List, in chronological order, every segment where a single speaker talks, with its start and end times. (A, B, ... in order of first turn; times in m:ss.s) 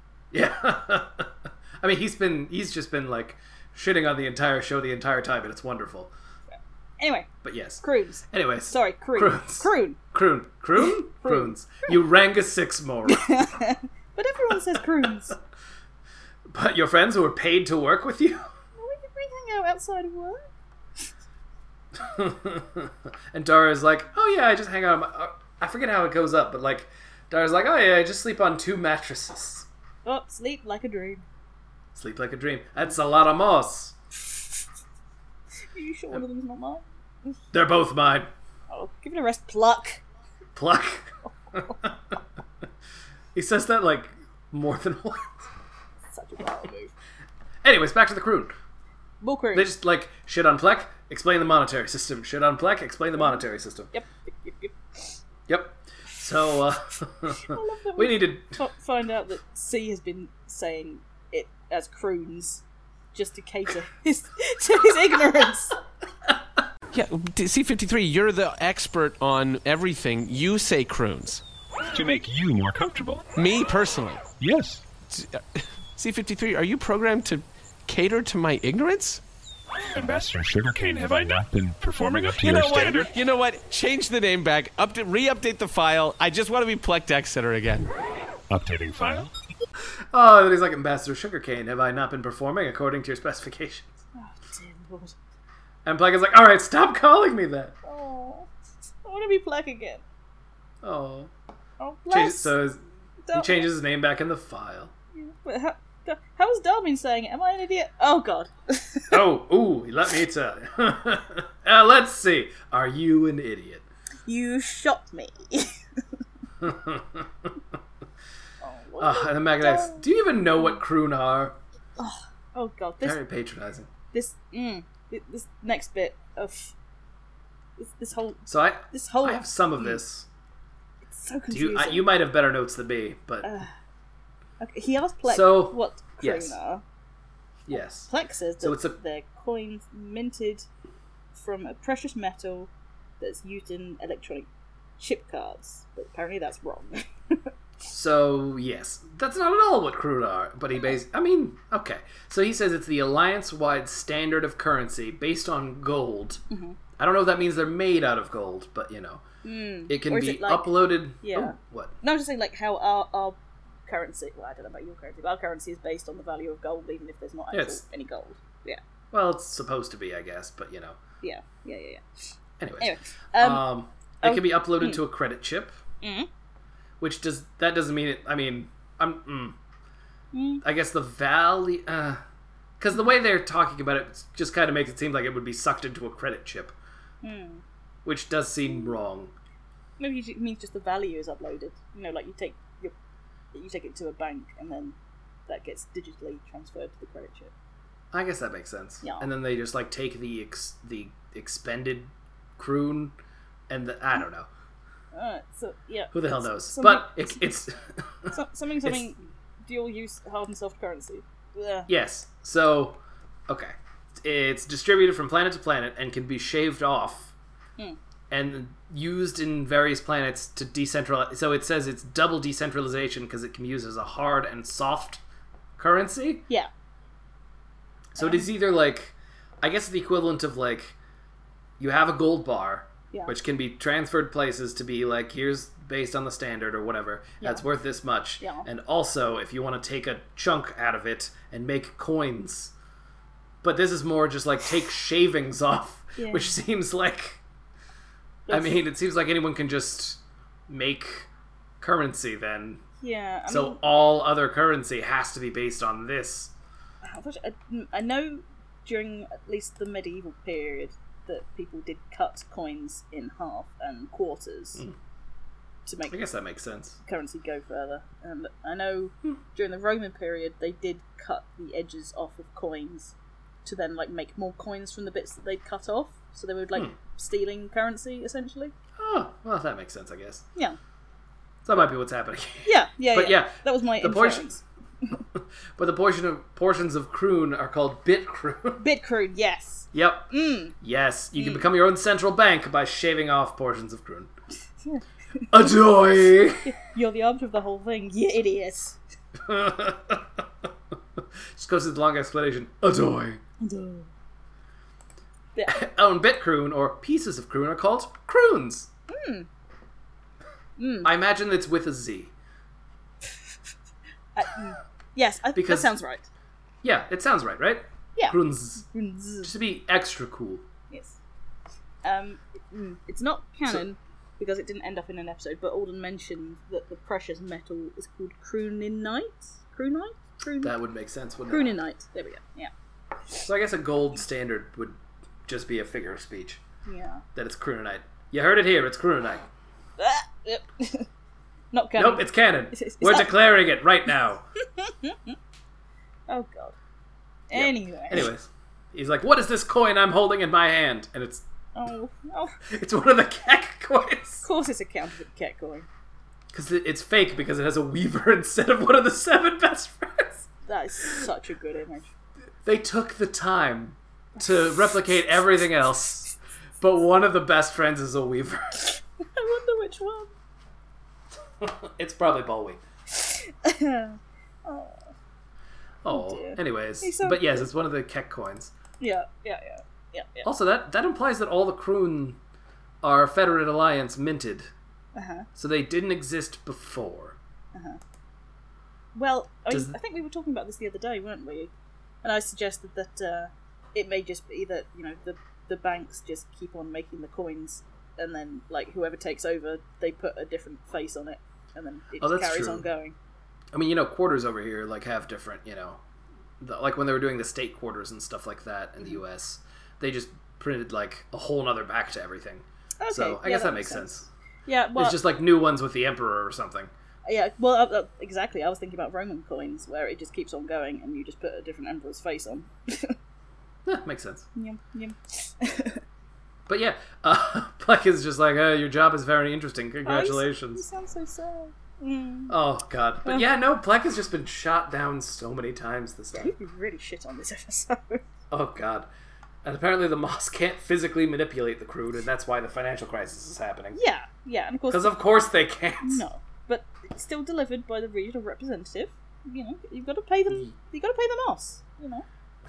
0:00.3-0:06.1 A
0:06.5-0:07.3 B
0:07.4-0:13.3 A
0:07.8-0:10.0 B
0:10.8-0:11.6 B
0:13.1-0:15.4 B
0:16.5-0:18.5 A
0:18.8-0:20.5 B
0:22.0-0:29.7 A
0:30.0-0:31.2 B
0:31.9-0:33.9 A
0:35.7-0:37.4 B
0:37.5-0:38.3 A
0:38.7-0:40.0 B
0:40.6-0:41.9 A
0:41.2-0:41.8 B
0:43.3-0:45.4 A
0:46.1-0:46.9 B
0:47.6-0:48.5 A
0:49.2-0:49.7 B
0:49.5-0:53.9 A
0:53.1-0:53.4 B
0:53.9-0:55.1 B
0:55.5-0:58.6 A
0:57.4-1:02.6 B
1:03.1-1:05.8 B
1:06.9-1:11.4 C
1:11.9-1:13.2 D
1:13.4-1:14.2 C
1:14.4-1:14.8 D
1:15.1-1:19.2 C
1:19.9-1:23.1 D
1:22.4-1:27.9 C
1:28.5-1:29.3 D
1:30.1-1:34.0 A
1:34.1-1:35.1 B
1:35.8-1:37.7 A
1:37.8-1:38.5 B
1:39.0-1:40.0 B
1:40.8-1:41.3 A
1:41.8-1:42.6 B
1:42.1-1:42.8 A
1:43.2-1:43.7 B
1:43.3-1:44.9 A
1:45.1-1:49.2 B
1:49.1-1:53.8 A
1:54.2-1:55.7 B
1:56.6-1:57.3 A
1:58.6-2:00.0 B
1:59.0-2:01.6 A
2:02.0-2:03.2 B
2:03.0-2:03.9 A
2:04.1-2:06.7 B
2:07.8-2:10.0 B
2:08.5-2:10.3 A
2:11.1-2:12.1 B
2:11.5-2:13.5 A
2:13.4-2:13.7 B
2:14.6-2:16.8 B
2:15.2-2:16.6 A
2:17.7-2:19.0 A
2:17.7-2:20.6 B
2:21.3-2:24.5 B
2:25.0-2:27.5 B
2:27.9-2:36.4 A
2:36.5-2:36.8 B
2:37.0-2:39.2 A
2:39.4-2:48.8 B
2:39.9-2:41.9 A
2:47.5-2:47.8 A
2:49.1-2:51.0 A
2:51.2-2:52.0 B
2:52.6-2:55.8 A
2:52.8-2:53.7 B
2:54.2-2:55.0 B
2:56.0-2:56.3 B
2:57.0-2:59.6 A
3:00.3-3:00.6 B
3:00.6-3:02.2 A
3:02.8-3:06.7 A
3:07.2-3:07.6 B
3:08.0-3:09.3 A
3:10.0-3:12.9 B
3:13.5-3:15.0 B
3:15.5-3:17.5 B
3:18.1-3:23.1 A
3:23.7-3:24.5 A
3:25.1-3:27.4 B
3:26.1-3:29.0 A
3:28.3-3:31.9 B
3:31.9-3:37.3 A
3:38.3-3:45.2 A
3:45.8-3:46.4 A
3:48.1-3:50.9 A
3:48.2-3:48.5 B
3:51.8-4:02.7 A
3:58.4-3:58.7 B
4:03.6-4:07.4 A
4:06.2-4:06.6 B
4:08.5-4:08.8 B
4:08.5-4:11.3 A
4:11.8-4:12.8 A
4:13.0-4:13.8 B
4:13.5-4:16.5 A
4:17.0-4:24.8 B
4:25.8-4:26.2 B
4:26.1-4:27.0 A
4:27.0-4:33.1 B
4:33.6-4:38.7 B
4:39.0-4:40.4 A
4:41.6-4:44.5 A
4:42.6-4:44.6 B
4:45.3-4:48.8 A
4:48.8-4:50.7 B
4:49.9-4:54.3 A
4:51.3-4:51.6 B
4:54.8-4:55.5 B
4:55.5-4:56.6 A
4:56.6-4:59.0 B
4:59.4-5:00.4 A
5:01.5-5:03.4 A
5:03.6-5:04.1 B
5:05.5-5:05.8 B
5:05.7-5:08.9 A
5:09.1-5:09.5 B
5:10.8-5:11.1 B
5:11.0-5:12.3 A
5:14.3-5:16.3 B
5:15.5-5:15.9 A
5:16.8-5:18.8 A
5:18.2-5:19.5 B
5:19.4-5:20.6 A
5:20.9-5:21.2 B
5:22.0-5:30.7 B
5:30.6-5:31.8 A
5:31.5-5:32.7 B
5:33.4-5:36.6 A
5:36.8-5:37.2 B
5:37.3-5:39.5 A
5:40.0-5:41.1 B
5:41.7-5:43.4 B
5:42.0-5:44.4 A
5:44.8-5:45.4 B
5:46.3-5:46.7 B
5:47.5-5:48.3 B
5:47.5-5:51.4 A
5:51.7-5:52.6 B
5:52.7-5:54.4 A
5:54.4-5:55.9 B
5:56.5-6:00.4 A
6:00.7-6:02.1 B
6:02.6-6:08.8 A
6:09.2-6:10.3 B
6:11.6-6:12.8 A
6:13.1-6:15.1 B
6:16.0-6:18.7 A
6:16.1-6:17.7 B
6:19.0-6:20.5 B
6:20.4-6:22.4 A
6:23.0-6:24.7 A
6:25.1-6:25.5 B
6:25.6-6:27.4 A
6:27.7-6:28.0 B
6:29.1-6:31.7 B
6:29.7-6:30.0 A
6:32.2-6:43.2 B
6:42.2-6:42.9 A
6:43.7-6:46.0 A
6:46.6-6:54.3 A
6:53.0-6:55.2 B
6:55.0-6:56.9 A
6:57.2-7:03.2 B
7:03.8-7:04.5 A
7:04.5-7:06.0 B
7:06.7-7:10.8 A
7:10.0-7:12.6 B
7:12.5-7:16.5 A
7:16.3-7:18.2 B
7:18.5-7:19.1 A
7:19.6-7:24.0 A
7:23.9-7:25.2 B
7:24.9-7:26.2 A
7:26.0-7:32.2 B